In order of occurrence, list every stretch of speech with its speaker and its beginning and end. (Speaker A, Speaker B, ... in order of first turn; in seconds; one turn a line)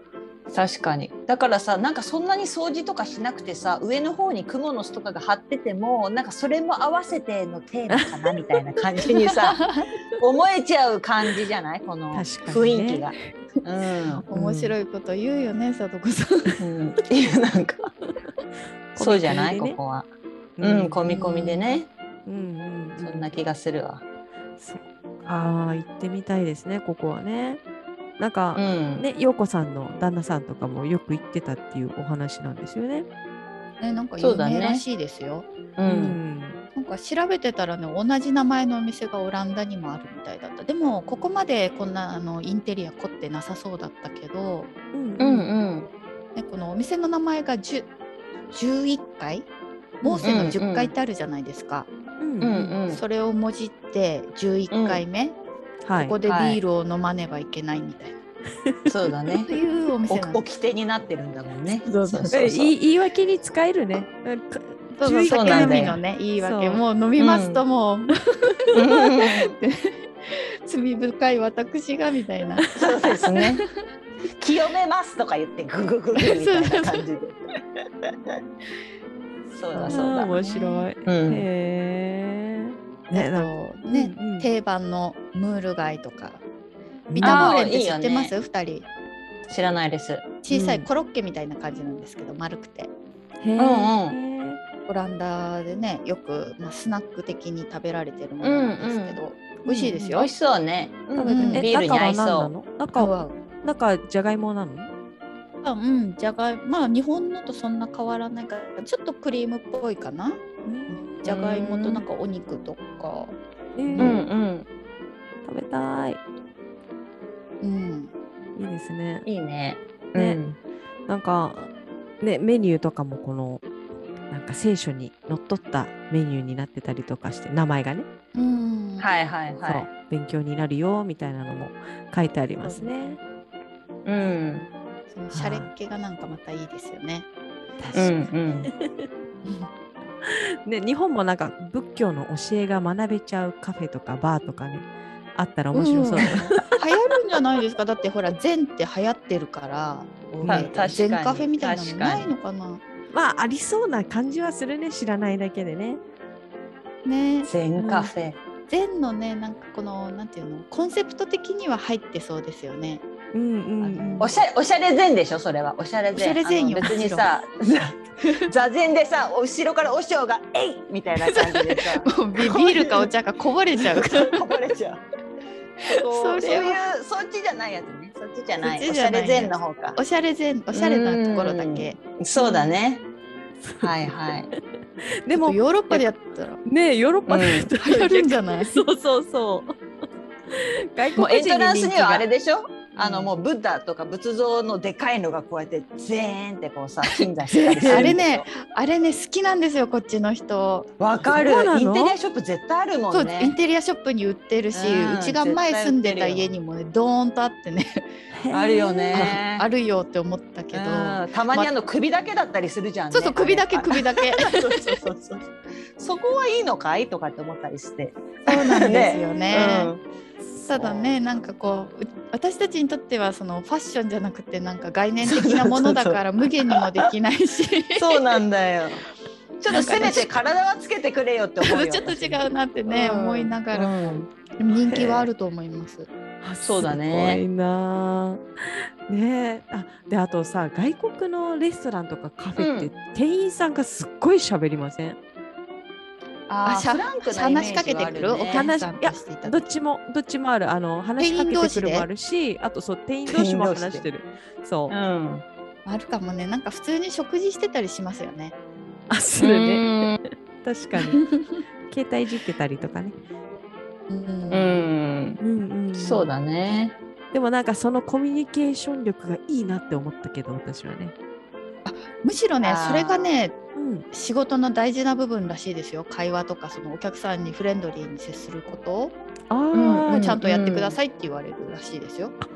Speaker A: 0.5-9.6
Speaker B: 7.9-8.3
Speaker A: 10.2-14.2
Speaker B: 12.1-13.1
Speaker C: 14.3-16.6
Speaker B: 14.3-14.7
Speaker A: 16.6-17.9
Speaker B: 18.9-19.8
Speaker A: 19.0-20.1
Speaker B: 20.6-21.0
Speaker A: 20.6-21.9
Speaker C: 21.1-21.7
Speaker B: 22.2-23.3
Speaker A: 23.0-24.0
Speaker B: 24.6-27.6
Speaker B: 28.2-33.1
Speaker A: 28.6-29.1
Speaker C: 33.8-35.5
Speaker A: 34.2-34.8
Speaker A: 35.8-36.2
Speaker B: 35.8-36.6
Speaker C: 36.7-44.7
Speaker B: 44.9-45.5
Speaker A: 45.2-45.9
Speaker C: 46.3-47.9
Speaker C: 48.5-49.5
Speaker C: 50.0-51.9
Speaker A: 50.2-50.9
Speaker B: 52.2-52.8
Speaker A: 52.4-53.0
Speaker C: 52.9-55.4
Speaker A: 54.7-55.0
Speaker B: 55.8-56.1
Speaker C: 56.0-58.2
Speaker A: 56.2-56.6
Speaker A: 58.9-59.5
Speaker C: 59.5-60.4
Speaker A: 60.1-62.7
Speaker C: 61.9-62.3
Speaker B: 62.3-66.8
Speaker C: 65.0-73.5
Speaker A: 65.3-66.0
Speaker A: 67.2-67.6
Speaker A: 68.7-69.5
Speaker A: 72.7-73.6
Speaker A: 74.4-77.4
Speaker C: 76.2-77.0
Speaker A: 78.0-78.3
Speaker A: 79.5-81.5
Speaker C: 79.7-80.8
Speaker B: 79.9-84.5
Speaker C: 83.1-86.4
Speaker B: 87.1-87.5
Speaker C: 87.2-88.9
Speaker A: 87.2-88.3
Speaker A: 89.5-90.3
Speaker C: 90.4-92.9
Speaker B: 90.5-90.9
Speaker B: 93.4-94.6
Speaker A: 93.6-94.2
Speaker C: 94.9-100.3
Speaker A: 98.4-99.2
Speaker B: 99.7-100.1
Speaker A: 100.1-102.5
Speaker B: 101.2-104.9
Speaker C: 101.2-101.7
Speaker C: 102.9-103.3
Speaker C: 105.6-114.2
Speaker B: 110.6-111.2
Speaker A: 111.2-112.0
Speaker B: 113.8-114.2
Speaker A: 114.0-114.7
Speaker B: 115.4-116.2
Speaker C: 117.6-118.1
Speaker B: 118.5-119.2
Speaker A: 119.2-120.6
Speaker B: 120.1-120.4
Speaker B: 121.1-121.7
Speaker B: 122.2-123.6
Speaker B: 124.3-128.1
Speaker C: 128.3-129.1
Speaker A: 129.0-129.9
Speaker B: 129.6-133.2
Speaker C: 132.6-133.1
Speaker A: 134.0-134.7
Speaker C: 135.1-137.2
Speaker B: 135.3-135.7
Speaker B: 137.8-139.1
Speaker A: 137.9-138.7
Speaker B: 140.2-146.7
Speaker C: 145.7-152.8
Speaker A: 146.2-146.5
Speaker B: 150.4-150.7
Speaker A: 150.4-152.3
Speaker B: 153.1-156.0
Speaker C: 157.0-157.5
Speaker A: 157.4-158.4
Speaker B: 157.8-158.1
Speaker C: 158.7-163.0
Speaker B: 163.3-164.2
Speaker C: 163.8-164.4
Speaker A: 164.2-173.1
Speaker C: 166.1-167.3
Speaker C: 171.2-174.4
Speaker A: 173.8-175.0
Speaker A: 175.9-180.0
Speaker C: 175.9-176.8
Speaker C: 178.6-182.8
Speaker A: 180.7-183.0
Speaker B: 183.6-184.6
Speaker A: 183.8-184.5
Speaker B: 185.2-186.1
Speaker C: 185.3-186.6
Speaker B: 186.6-189.7
Speaker A: 187.3-187.7
Speaker C: 187.8-188.8
Speaker B: 190.5-192.3
Speaker A: 191.2-198.5
Speaker C: 197.7-200.9
Speaker B: 197.7-198.1
Speaker A: 201.0-203.6
Speaker B: 201.3-202.1
Speaker C: 203.1-208.0
Speaker A: 204.7-206.5
Speaker B: 208.3-209.3
Speaker A: 208.5-209.7
Speaker C: 209.1-211.7
Speaker A: 210.7-220.0
Speaker C: 213.1-215.0
Speaker C: 218.4-219.9
Speaker C: 220.7-228.3
Speaker A: 220.7-221.2
Speaker A: 225.2-227.1
Speaker A: 227.9-229.0
Speaker A: 229.6-234.3
Speaker C: 229.7-230.3
Speaker C: 231.6-233.9
Speaker C: 234.6-236.1
Speaker A: 234.9-235.2
Speaker B: 236.4-245.2
Speaker A: 236.6-237.4
Speaker A: 242.6-242.9
Speaker A: 246.5-248.7
Speaker C: 246.6-249.7
Speaker B: 248.5-254.9
Speaker C: 251.2-252.1
Speaker A: 253.3-254.1
Speaker A: 254.9-255.4
Speaker C: 255.8-258.5
Speaker B: 259.1-259.9
Speaker A: 259.4-260.2
Speaker B: 260.6-261.2
Speaker C: 261.1-261.4
Speaker B: 261.9-263.1
Speaker C: 264.1-264.8
Speaker A: 264.5-265.4
Speaker B: 265.4-266.3
Speaker A: 265.9-267.0
Speaker B: 267.3-271.1
Speaker C: 271.8-273.5
Speaker A: 272.6-273.3
Speaker B: 273.8-274.1
Speaker C: 274.1-279.1
Speaker B: 279.5-280.4
Speaker A: 279.7-281.0
Speaker C: 280.0-282.3